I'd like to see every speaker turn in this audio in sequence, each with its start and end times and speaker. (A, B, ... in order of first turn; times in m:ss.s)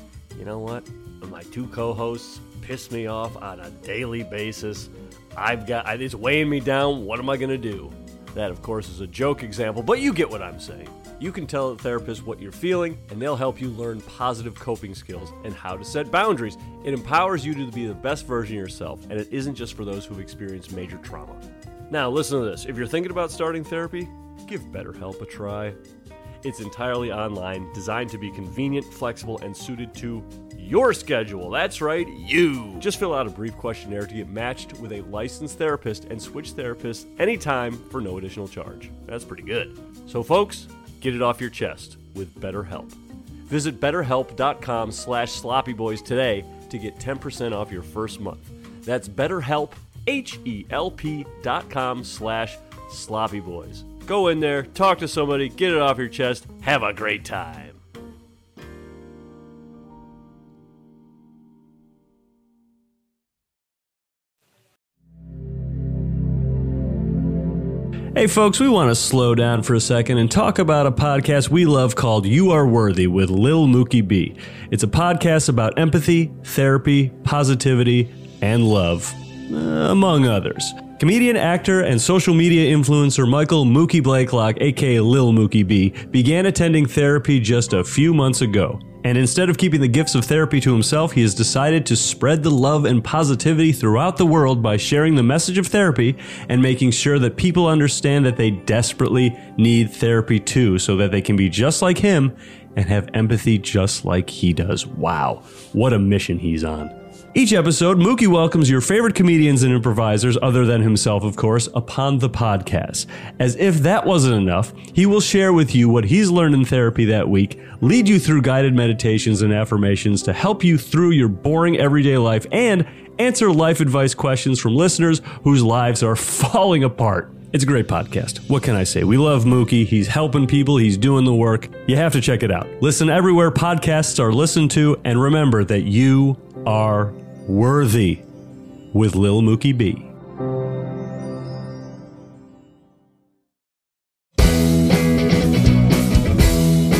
0:00.4-0:25.8 A
0:26.4-0:43.0 A
0:43.5-0:57.8 A
1:08.2-2:18.2 A
2:18.9-2:20.1 A